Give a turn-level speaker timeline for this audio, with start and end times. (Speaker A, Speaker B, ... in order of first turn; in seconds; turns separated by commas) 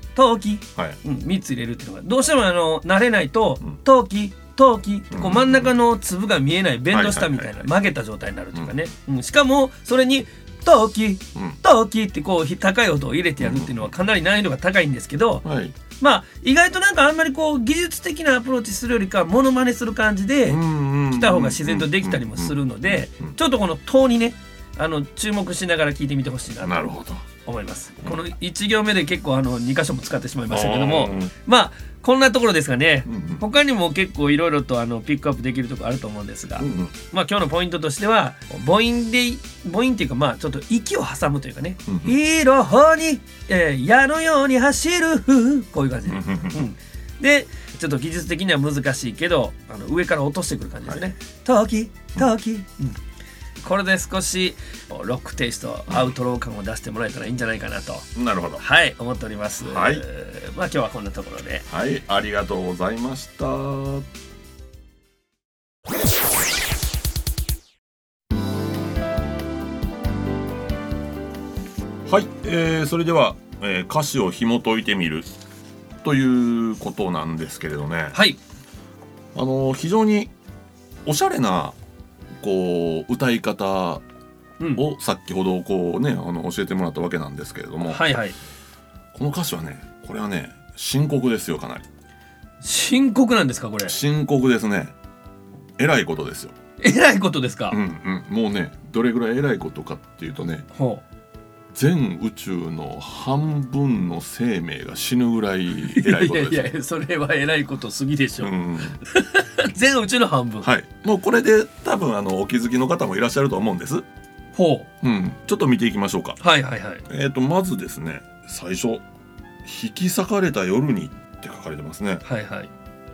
Speaker A: 0.1-15.4, Speaker B: 5.1-5.7, Speaker B: 6.9-7.7, Speaker B: 8.5-8.9, Speaker B: 13.4-13.9, Speaker B: 15.4-15.8, Speaker A: 16.0-53.0, Speaker B: 20.4-23.3, Speaker B: 26.6-27.2, Speaker B: 30.5-31.3, Speaker B: 33.1-33.4, Speaker B: 36.6-36.9, Speaker B: 41.9-42.1, Speaker B: 46.1-46.7, Speaker A: 53.6-61.7, Speaker B: 58.1-58.6, Speaker B: 59.6-60.0, Speaker B: 61.7-64.0, Speaker B: 72.1-75.3, Speaker B: 76.0-78.2, Speaker A: 78.1-78.4, Speaker B: 79.3-80.3, Speaker B: 81.0-81.8, Speaker B: 82.4-84.0, Speaker A: 84.6-84.8, Speaker B: 84.8-88.0, Speaker A: 87.9-88.4, Speaker B: 89.1-91.8, Speaker A: 92.6-93.9, Speaker B: 93.8-94.9, Speaker B: 95.8-96.5, Speaker A: 96.8-97.8, Speaker B: 97.7-100.7, Speaker A: 100.7-101.0, Speaker B: 101.7-106.7, Speaker A: 105.9-110.7, Speaker B: 108.4-109.0, Speaker B: 110.6-114.0, Speaker A: 114.5-114.9, Speaker B: 115.0-116.4, Speaker A: 116.4-117.0, Speaker B: 117.1-119.0, Speaker B: 119.6-122.2, Speaker A: 122.2-122.7